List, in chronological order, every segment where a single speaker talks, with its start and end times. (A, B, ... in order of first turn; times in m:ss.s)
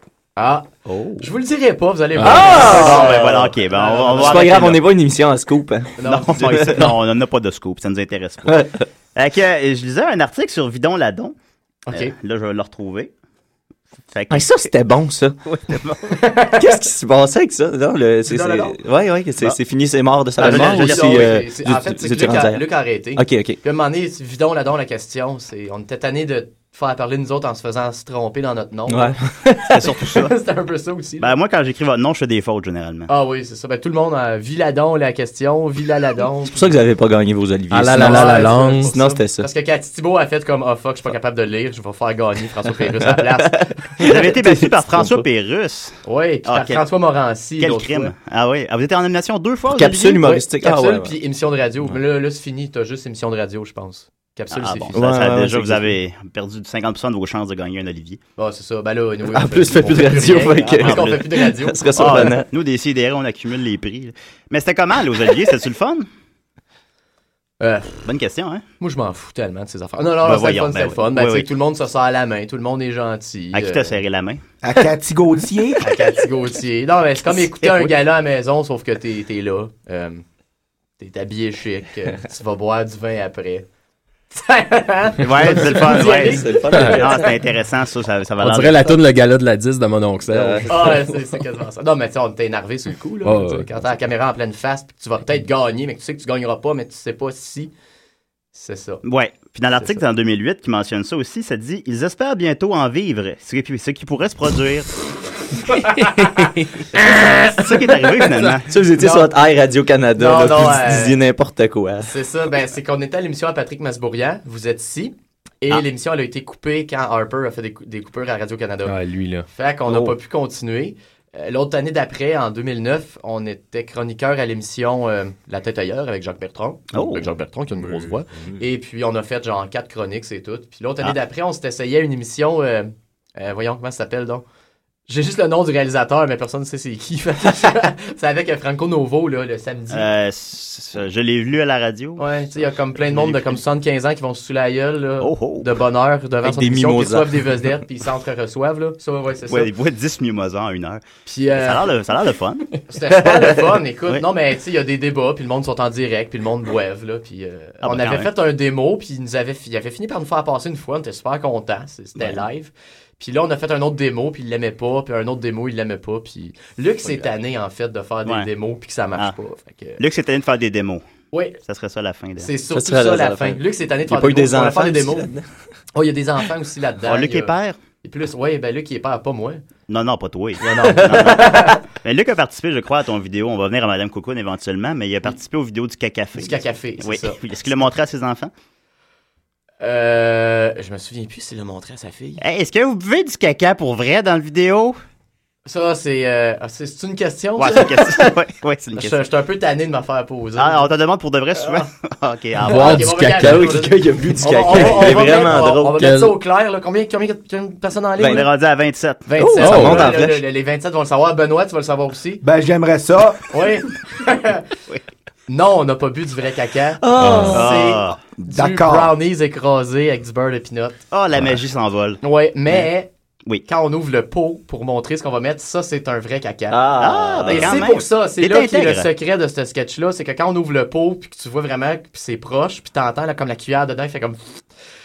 0:00.4-0:04.6 A
0:02.2-0:02.6 B
0:02.2-0:03.4 C
0:02.5-0:04.8 D
0:04.1-0:06.9 C
0:06.0-0:06.9 A
0:06.0-0:08.6 D
0:08.5-0:08.8 C
0:09.1-0:11.3 D
0:11.9-0:12.1 A
0:11.9-0:13.1 D
0:14.1-0:14.7 D
0:14.3-0:15.4 C
0:15.4-0:16.2 D
0:16.1-0:16.6 A
0:16.5-0:22.6 C
0:18.2-0:18.8 A
0:20.4-0:21.3 D
0:20.4-0:29.2 A
0:23.2-0:23.6 C
0:28.9-0:29.8 C
0:29.7-0:30.3 D
0:30.0-0:31.3 A
0:31.2-0:33.1 D
0:33.1-0:36.8 A
0:36.4-0:39.5 C
0:37.7-0:38.9 B
0:37.9-0:44.1 A
0:43.2-0:45.2 C
0:44.0-0:46.8 D
0:46.0-0:48.1 A
0:47.6-0:50.2 D
0:49.7-0:51.1 C
0:50.2-0:55.0 A
0:54.5-0:58.2 D
0:54.9-0:56.0 C
0:58.4-1:02.3 A
0:59.3-1:02.5 C
1:00.8-1:01.2 D
1:02.0-1:06.1 D
1:07.6-1:08.0 A
1:08.0-1:08.6 D
1:08.8-1:14.0 A
1:10.2-1:11.5 D
1:13.5-1:14.4 D
1:14.6-1:15.9 E
1:15.8-1:20.2 A
1:17.6-1:17.9 D
1:21.0-1:23.6 A
1:24.3-1:27.0 A
1:25.2-1:29.0 D
1:25.7-1:27.3 C
1:28.4-1:31.0 B
1:30.3-1:30.7 C
1:30.7-1:37.7 A
1:33.2-1:33.7 B
1:38.5-1:39.0 A
1:39.0-1:44.9 D
1:39.8-1:40.0 A
1:45.7-1:46.3 A
1:45.9-1:46.5 B
1:47.4-1:48.7 D
1:48.7-1:52.1 C
1:49.0-1:49.3 A
1:50.2-1:51.2 A
1:52.0-2:14.4 A
1:58.8-1:59.4 B
2:06.9-2:07.3 D
2:15.1-2:20.1 A
2:19.9-2:22.3 D
2:22.2-2:29.7 A
2:22.9-2:23.6 D
2:25.2-2:25.7 D
2:26.4-2:27.6 C
2:29.5-2:31.0 D
2:31.2-2:31.9 A
2:31.5-2:32.8 D
2:32.8-2:50.0 A
2:37.8-2:38.3 D
2:42.2-2:42.4 D
2:50.0-2:51.0 D
2:51.3-2:51.6 A
2:51.6-2:52.5 D
2:52.4-2:55.3 A
2:52.7-2:55.4 C
2:55.9-2:59.6 A
2:57.0-2:57.8 D
2:59.9-3:08.5 D
3:00.6-3:01.8 A
3:01.2-3:01.6 C
3:06.4-3:07.4 A
3:09.8-3:12.4 A
3:12.4-3:15.0 D
3:15.6-3:18.3 A
3:17.6-3:19.2 D
3:19.0-3:20.9 A
3:20.6-3:23.1 D
3:21.6-3:21.9 A
3:22.6-3:28.5 A
3:22.6-3:23.8 B
3:23.4-3:26.1 C
3:24.7-3:26.3 B
3:28.2-3:28.4 C
3:28.2-3:29.3 D
3:29.2-3:32.4 A
3:29.4-3:30.4 C
3:29.6-3:30.1 B
3:32.4-3:33.4 E
3:33.5-3:34.6 A
3:35.5-3:41.0 A
3:37.0-3:37.6 C
3:37.2-3:37.6 B
3:37.5-3:38.2 D
3:38.4-3:39.1 E
3:41.1-3:42.9 D
3:42.2-3:43.1 A
3:43.6-3:46.8 A
3:46.7-3:47.8 C
3:47.0-3:49.1 D
3:47.4-3:54.6 A